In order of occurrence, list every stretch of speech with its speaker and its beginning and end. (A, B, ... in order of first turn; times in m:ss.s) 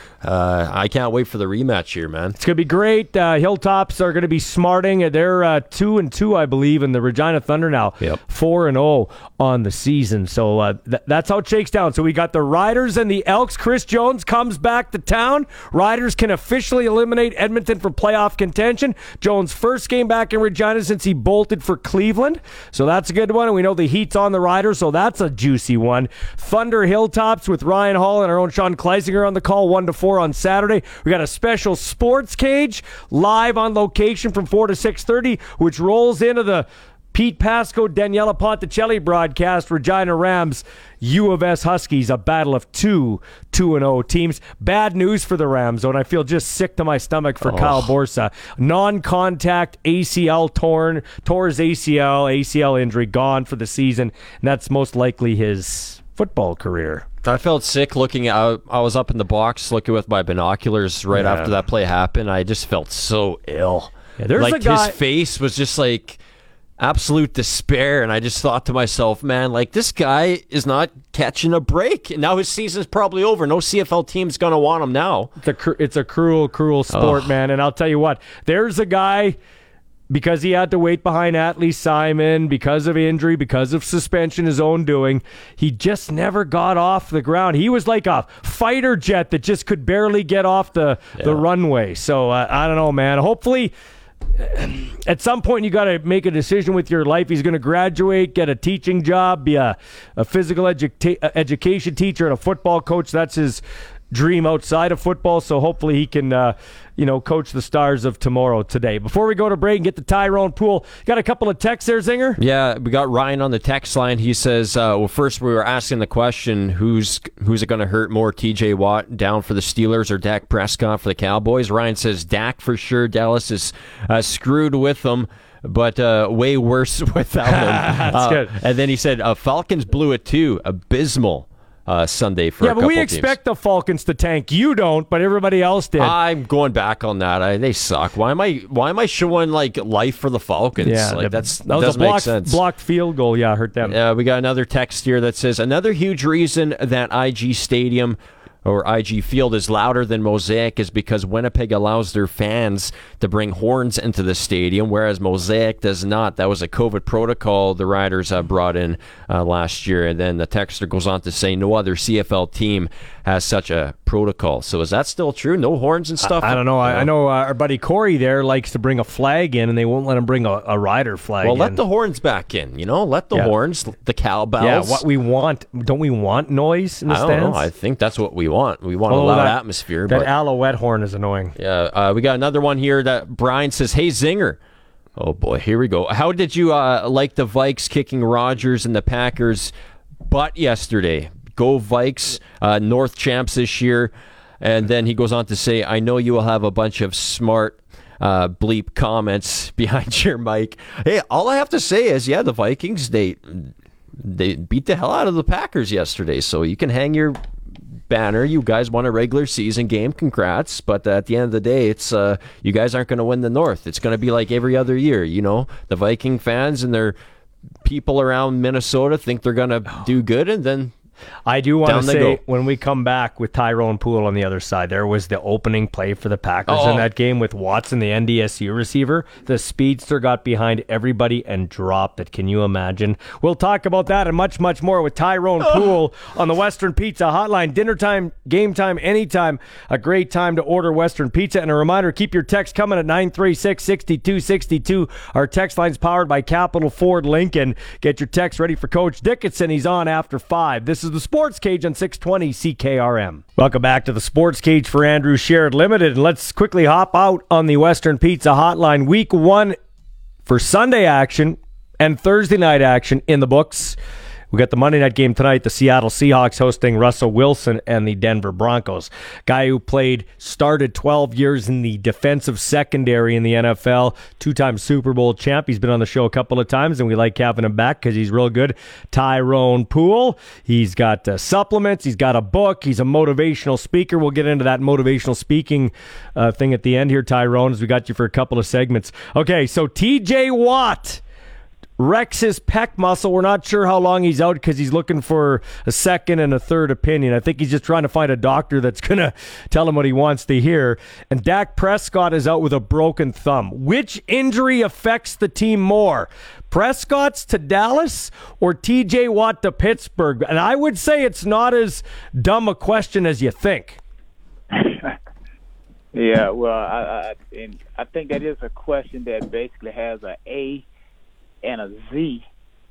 0:00.2-0:02.4 A
0:02.4-0:57.1 B
0:47.4-0:47.9 A
0:57.2-1:06.2 A
1:01.1-1:01.6 B
1:04.2-1:05.0 B
1:06.8-1:15.3 A
1:15.4-1:19.4 B
1:16.9-1:17.3 A
1:20.1-1:33.7 B
1:34.4-1:52.4 B
1:52.4-2:13.3 A
2:07.6-2:08.5 B
2:12.6-2:16.2 B
2:16.0-2:22.6 A
2:20.8-2:24.0 B
2:23.8-2:47.1 A
2:46.2-2:51.8 B
2:51.4-2:55.0 A
2:54.6-2:57.6 B
2:57.1-3:00.3 A
2:59.1-2:59.6 B
3:00.1-3:01.5 B
3:01.6-3:04.6 A
3:05.2-3:09.7 A
3:10.3-3:27.4 A
3:28.1-3:37.2 A
3:37.8-3:40.9 A
3:41.5-4:19.8 B
3:41.8-3:42.4 A
3:46.7-3:47.1 A
4:20.5-4:24.0 B
4:24.5-4:51.2 B
4:52.0-5:14.0 B
5:14.7-5:15.2 C
5:16.1-5:20.9 C
5:21.6-5:22.4 C